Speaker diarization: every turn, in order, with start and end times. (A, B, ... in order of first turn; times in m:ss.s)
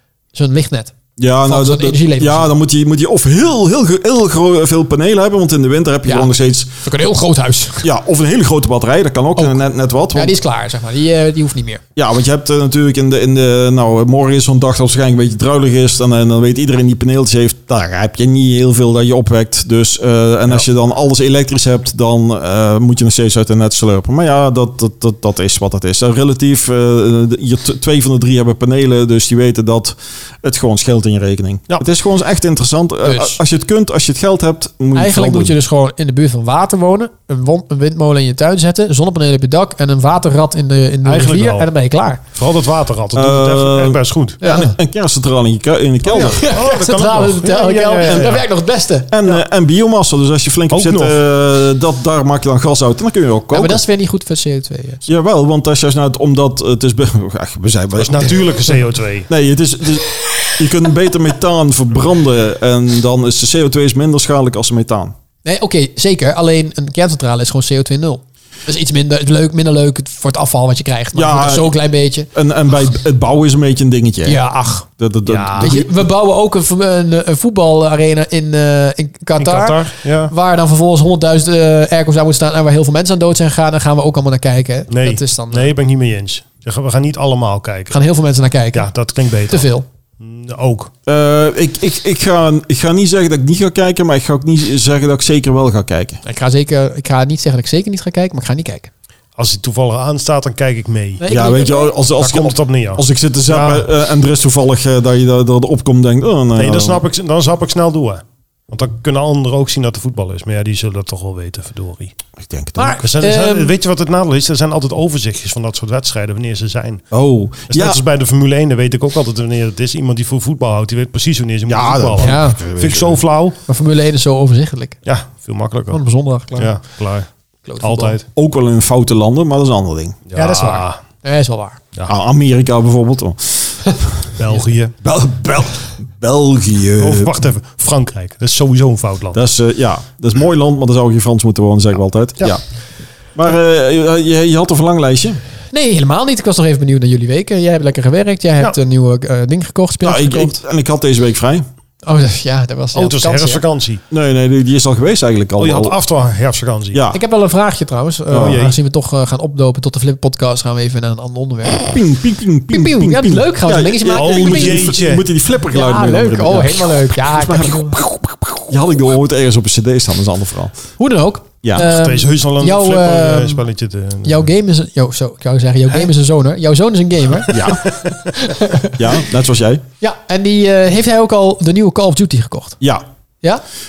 0:00.3-0:00.9 A
0:01.2-0:06.8 B
0:01.5-0:02.5 A
0:06.1-0:06.3 A
0:06.8-0:07.9 A
0:07.8-0:10.4 B
0:10.1-0:11.8 A
0:12.0-0:35.6 B
0:33.0-0:33.4 A
0:34.9-0:42.2 A
0:41.0-0:41.7 C
0:42.3-0:44.4 C
0:43.1-0:46.4 B
0:44.4-0:44.8 A
0:46.0-0:48.4 C
0:46.3-0:49.2 A
0:48.1-0:48.4 B
0:49.1-0:53.8 B
0:50.7-0:51.2 C
0:53.5-0:55.0 A
0:55.1-0:58.6 B
0:58.0-0:59.3 C
0:59.3-1:05.1 B
1:05.4-1:12.3 A
1:11.2-1:11.8 B
1:12.3-1:14.4 B
1:14.2-1:14.9 A
1:15.0-1:16.0 B
1:15.2-1:15.8 C
1:15.6-1:25.7 A
1:19.4-1:20.3 C
1:24.9-1:28.0 C
1:27.9-1:28.9 A
1:28.7-1:29.7 C
1:29.5-1:29.8 A
1:30.2-1:30.9 C
1:31.1-1:36.2 B
1:36.2-1:38.9 A
1:39.4-1:41.2 C
1:41.2-1:41.9 A
1:41.3-1:47.0 B
1:42.2-1:43.8 C
1:46.6-1:52.1 C
1:52.4-1:53.0 B
1:52.8-1:53.7 A
1:53.0-1:57.0 C
1:57.1-1:58.0 B
1:57.7-2:03.6 C
2:01.7-2:03.2 B
2:02.2-2:02.6 A
2:03.7-2:05.0 A
2:05.0-2:06.0 C
2:05.9-2:06.8 A
2:06.6-2:07.3 C
2:07.7-2:08.2 A
2:07.8-2:08.2 C
2:08.4-2:10.2 B
2:10.3-2:11.0 C
2:10.4-2:11.8 A
2:12.1-2:14.3 B
2:14.4-2:15.0 C
2:15.0-2:17.3 B
2:17.0-2:19.4 C
2:19.3-2:22.6 B
2:23.4-2:25.4 B
2:25.7-2:30.6 A
2:30.0-2:31.6 B
2:32.0-2:33.6 A
2:32.9-2:34.0 C
2:34.1-2:36.0 B
2:35.6-2:37.0 C
2:36.9-2:37.2 B
2:37.1-2:42.0 A
2:38.3-2:38.6 B
2:38.3-2:38.8 C
2:41.8-2:50.8 B
2:42.7-2:45.0 A
2:44.1-2:45.2 C
2:45.7-2:48.0 A
2:51.0-2:53.6 A
2:51.8-2:54.5 C
2:54.2-2:59.0 A
2:57.5-2:57.8 B
2:57.8-2:58.2 C
2:58.9-2:59.8 B
3:00.0-3:02.8 A